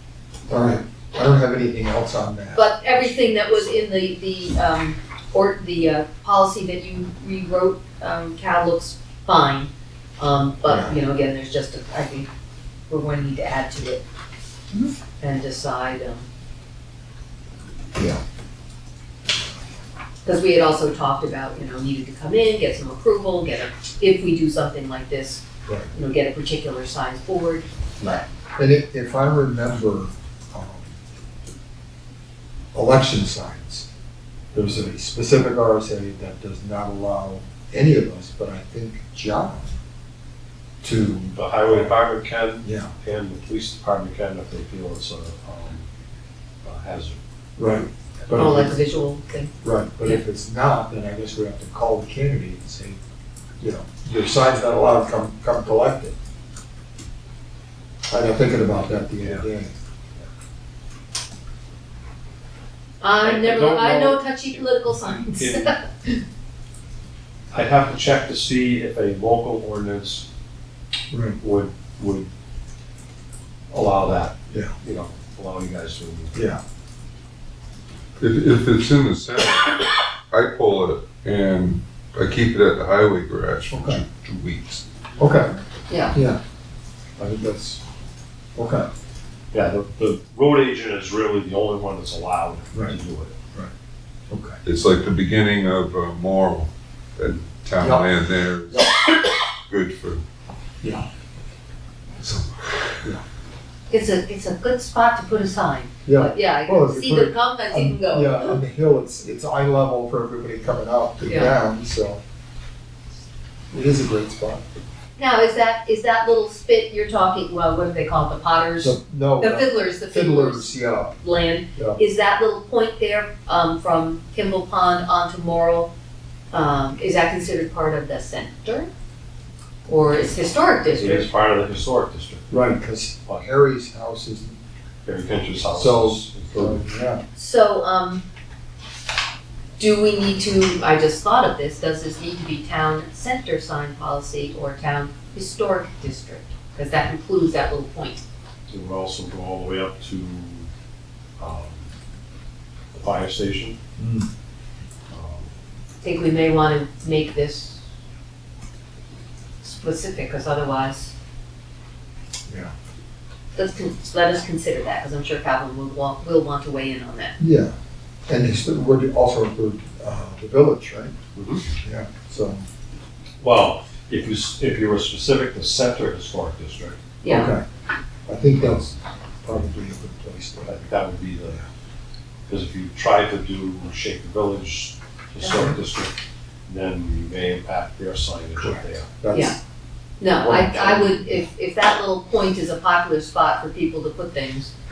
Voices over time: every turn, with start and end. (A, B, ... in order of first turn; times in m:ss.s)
0:00.5-0:03.8 A
0:02.5-0:12.3 B
0:10.6-0:10.9 A
0:12.9-0:14.0 B
0:15.2-0:16.2 B
0:20.2-0:27.6 B
0:25.7-0:25.9 A
0:28.0-0:30.9 A
0:32.7-0:33.9 A
0:34.5-0:39.7 A
0:40.8-0:41.9 A
0:41.3-0:45.9 C
0:42.6-0:42.9 A
0:46.6-0:47.2 C
0:47.6-0:48.7 A
0:48.2-0:48.5 C
0:48.3-0:49.5 B
0:49.6-0:53.0 A
0:53.6-0:56.1 A
0:58.1-0:59.7 A
0:59.2-0:59.5 C
1:03.0-1:06.2 B
1:03.2-1:05.7 C
1:07.5-1:10.3 C
1:11.1-1:11.4 A
1:11.4-1:12.3 C
1:13.7-1:16.4 C
1:16.3-1:16.6 A
1:18.2-1:24.8 D
1:23.7-1:24.0 A
1:25.2-1:25.5 A
1:25.9-1:26.1 B
1:26.1-1:26.4 A
1:27.2-1:27.8 A
1:28.6-1:28.9 A
1:29.5-1:33.3 C
1:34.3-1:34.6 A
1:34.6-1:40.2 D
1:37.8-1:38.1 A
1:40.8-1:41.1 A
1:42.2-1:43.1 D
1:43.9-1:48.6 B
1:46.0-1:52.2 A
1:51.2-1:51.5 B
1:53.7-1:54.6 A
1:55.2-2:05.9 B
1:58.8-2:01.1 A
2:06.5-2:08.9 B
2:09.9-2:11.3 B
2:10.9-2:12.4 C
2:12.5-2:14.6 A
2:15.0-2:16.8 C
2:15.7-2:17.2 A
2:17.3-2:18.2 B
2:19.8-2:28.2 B
2:28.7-2:30.7 C
2:31.4-2:31.9 C
2:32.9-2:33.8 C
2:34.0-2:34.3 A
2:35.1-2:35.5 C
2:36.0-2:37.8 B
2:39.6-2:41.1 B
2:42.5-2:42.7 A
2:43.5-2:47.3 B
2:47.4-2:47.7 A
2:48.3-2:51.1 A
2:51.4-2:51.6 C
2:51.8-2:52.6 A
2:53.4-2:57.0 C
2:57.2-2:57.5 B
2:57.3-2:57.6 A
2:58.3-2:58.9 A
2:59.4-3:00.8 A
3:00.6-3:01.6 C
3:02.5-3:06.2 C
3:05.4-3:05.7 B
3:06.7-3:09.1 C
3:08.6-3:09.6 A
3:09.3-3:09.6 B
3:10.2-3:14.7 B
3:10.4-3:11.2 C